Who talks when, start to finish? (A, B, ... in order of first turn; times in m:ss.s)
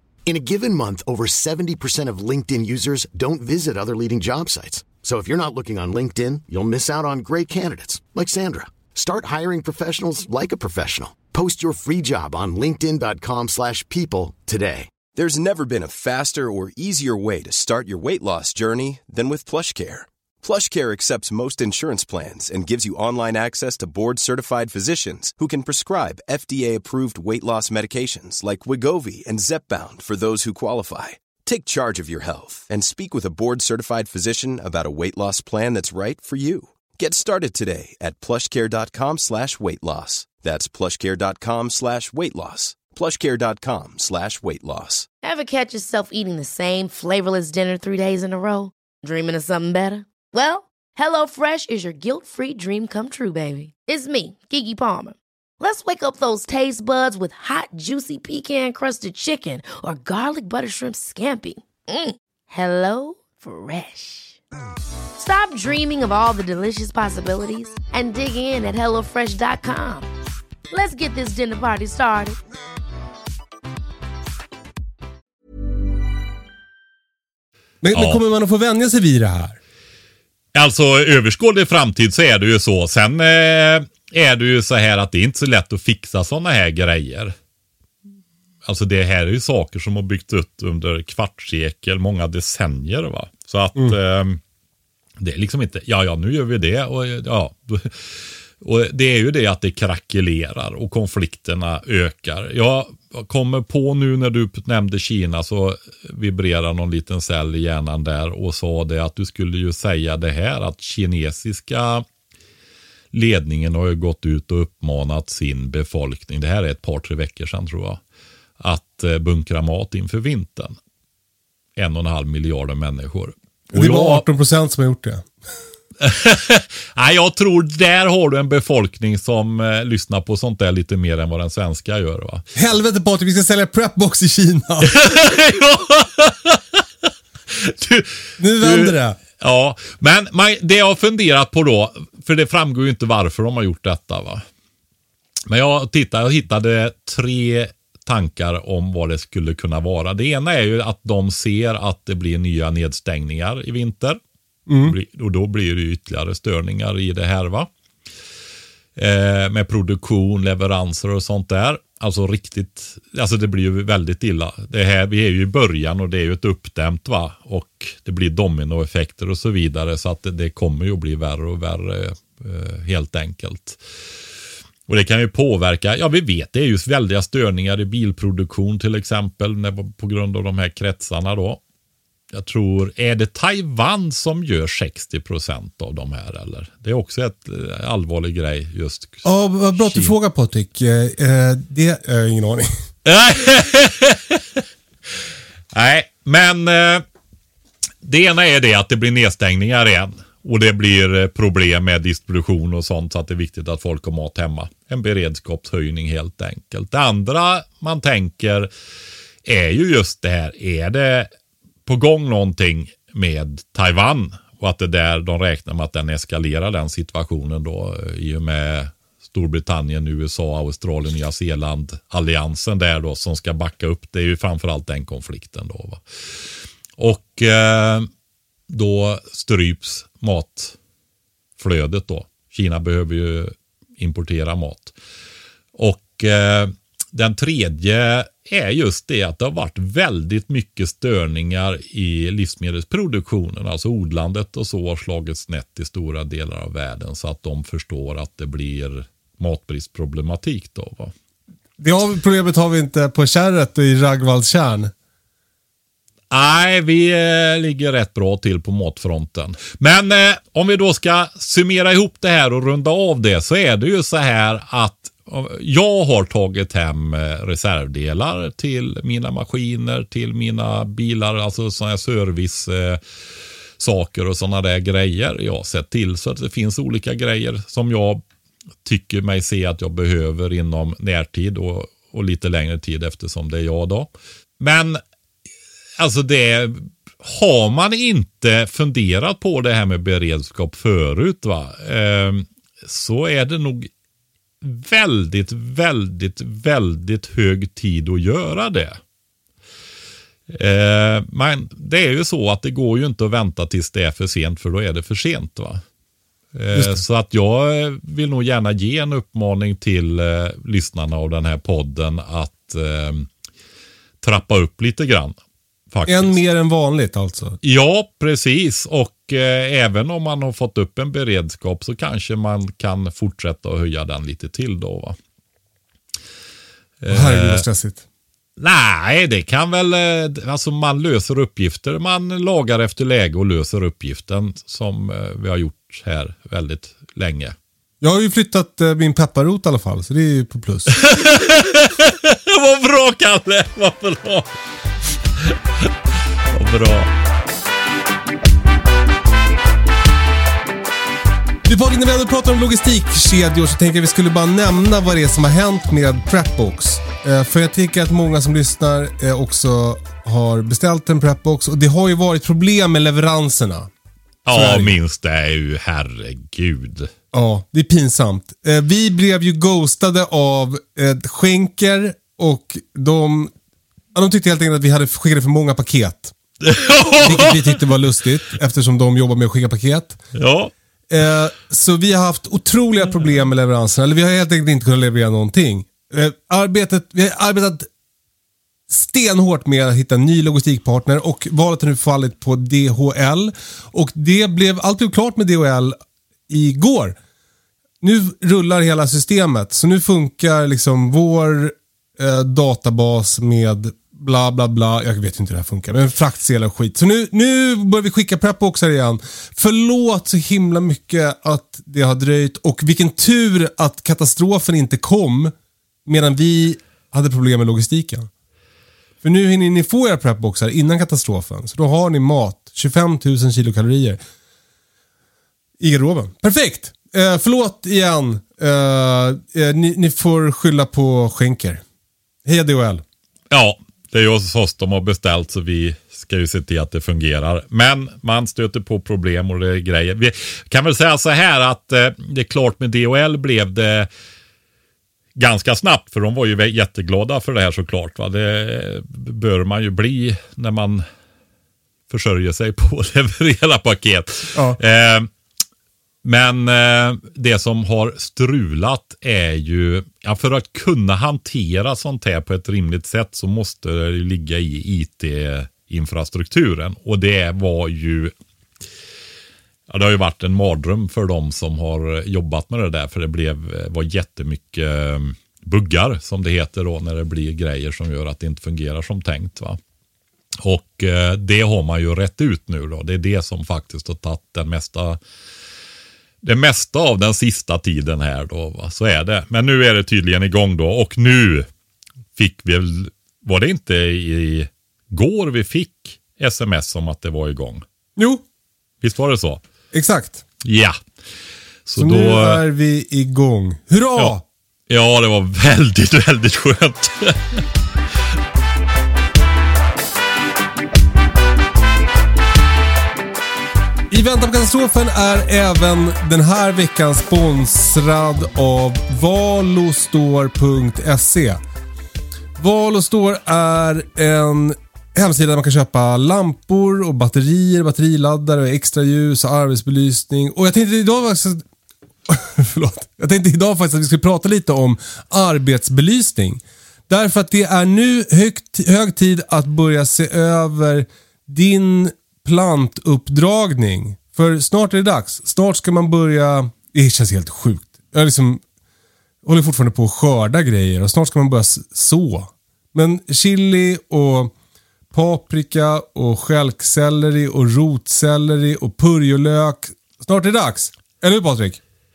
0:00.3-0:14.9 A
0:15.1-0:45.1 B
0:45.2-1:04.4 C
1:05.2-1:10.1 C
1:10.7-1:12.4 C
1:17.8-1:19.6 D
1:17.9-1:18.2 E
1:20.5-1:27.3 E
1:28.6-1:34.4 E
1:35.2-1:52.0 E
1:53.1-1:58.0 E
1:58.6-2:00.8 E
2:01.8-2:04.2 E
2:03.7-2:05.3 D
2:06.0-2:12.5 E
2:12.6-2:14.9 D
2:14.8-2:24.4 E
2:18.4-2:19.2 D
2:25.5-2:34.2 E
2:34.7-2:35.0 D
2:34.8-2:37.7 E
2:39.0-2:53.8 E
2:54.9-3:01.6 E
3:02.3-3:10.1 E
3:09.2-3:12.7 D
3:13.0-3:14.4 E
3:15.7-3:17.0 E
3:18.0-3:28.7 E
3:29.4-3:31.3 E
3:31.8-3:46.0 E
3:47.0-3:48.1 E
3:48.7-3:50.8 E
3:51.6-3:54.9 E
3:55.8-4:11.1 E
4:11.8-4:14.9 D
4:16.3-4:33.0 E
4:33.8-4:38.2 E
4:38.8-4:44.1 E
4:44.6-4:45.0 E
4:46.0-4:53.9 E
4:54.6-4:59.0 E
5:00.5-5:05.8 E
5:06.5-5:13.3 E
5:06.7-5:07.0 D
5:14.2-5:15.4 E
5:15.9-5:16.4 E
5:16.0-5:17.6 D
5:17.6-5:25.2 E
5:27.0-5:27.7 E
5:27.1-5:28.0 D
5:28.6-5:37.5 E
5:38.0-5:40.9 D
5:41.0-5:44.5 E
5:45.4-5:45.9 E
5:46.5-5:47.1 E
5:51.6-6:03.9 D
6:04.4-6:07.1 E
6:04.5-6:05.0 D
6:07.3-6:13.5 D
6:14.1-6:16.3 D
6:16.6-6:17.8 E
6:17.2-6:20.2 D
6:20.3-6:20.7 E
6:21.1-6:27.9 D
6:28.9-6:36.0 D
6:36.5-6:37.2 D
6:38.0-6:55.5 D
6:56.0-6:58.3 D
6:59.2-7:04.2 D
7:05.8-7:11.8 D
7:12.4-7:13.0 D
7:13.5-7:24.1 E
7:25.4-7:31.0 E
7:32.1-7:35.3 E
7:34.5-7:34.8 D
7:36.2-7:48.3 E
7:49.9-7:59.8 E
8:00.6-8:05.2 E
8:06.4-8:11.7 E
8:12.4-8:17.8 E
8:18.2-8:18.4 D
8:19.0-8:19.6 E
8:19.9-8:20.4 D
8:20.6-8:21.0 E
8:21.8-8:22.6 E
8:22.0-8:24.4 D
8:24.9-8:27.6 E
8:34.1-8:41.6 D
8:42.6-8:51.6 D
8:52.3-9:08.6 D
9:09.4-9:14.5 D
9:15.1-9:21.8 D